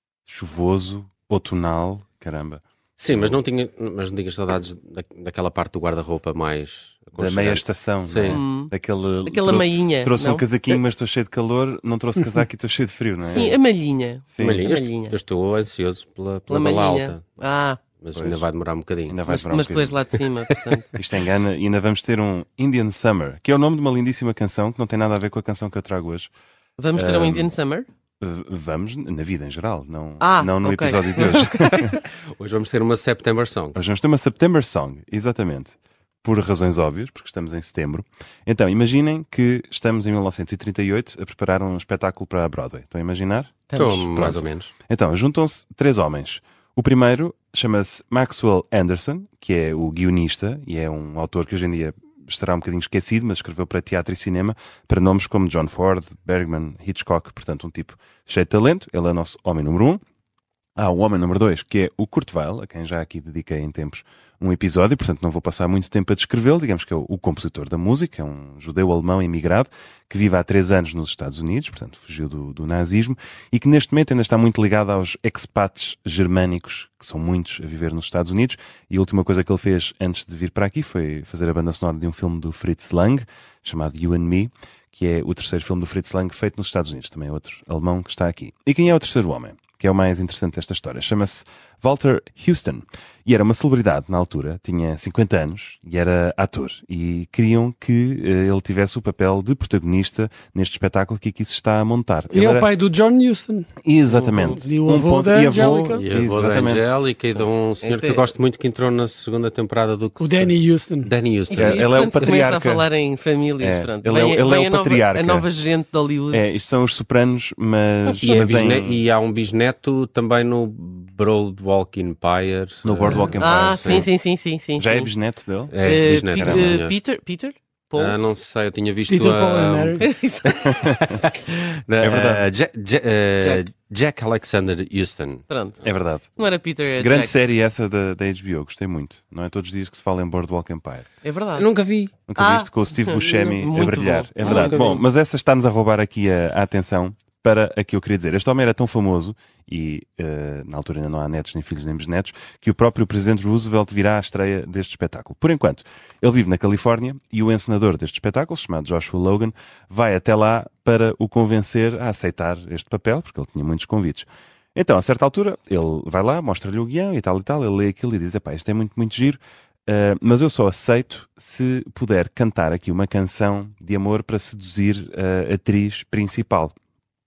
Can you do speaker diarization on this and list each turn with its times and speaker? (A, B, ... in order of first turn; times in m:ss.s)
0:00.3-0:03.4 A
0:03.0-0:08.4 B
0:07.2-0:13.6 A
0:08.3-0:08.7 C
0:09.2-0:10.8 C
0:13.2-0:15.2 C
0:14.3-0:14.7 A
0:14.4-0:17.3 B
0:16.5-0:17.8 C
0:18.0-0:19.2 B
0:18.2-0:18.4 A
0:19.1-0:20.0 A
0:19.3-0:20.9 C
0:21.0-0:26.3 A
0:26.8-0:27.9 C
0:26.9-0:27.5 A
0:28.2-0:31.9 A
0:30.2-0:32.0 C
0:32.0-0:33.8 B
0:33.8-0:43.6 A
0:43.7-0:44.4 C
0:43.7-0:44.7 B
0:44.2-1:00.0 A
1:00.8-1:42.7 A
1:42.3-1:43.7 D
1:43.8-1:46.9 A
1:44.4-1:46.1 D
1:45.9-1:52.5 B
1:47.8-1:48.3 C
1:50.2-1:51.1 D
1:51.5-1:56.4 C
1:51.6-1:52.9 A
1:53.6-1:55.5 A
1:56.3-1:59.0 A
1:58.1-1:58.7 C
1:58.2-2:04.1 B
2:02.8-2:04.1 A
2:03.3-2:05.1 C
2:04.8-2:06.8 A
2:05.7-2:07.0 B
2:05.8-2:08.2 C
2:07.9-2:10.1 B
2:09.1-2:10.0 D
2:10.0-2:11.0 C
2:10.6-2:15.5 B
2:12.0-2:12.4 A
2:13.4-2:13.6 C
2:15.5-2:17.4 C
2:15.8-2:16.3 A
2:17.0-2:21.1 A
2:21.2-2:21.7 C
2:21.6-2:22.1 B
2:22.3-2:56.8 A
2:22.4-2:25.0 C
2:24.4-2:25.0 B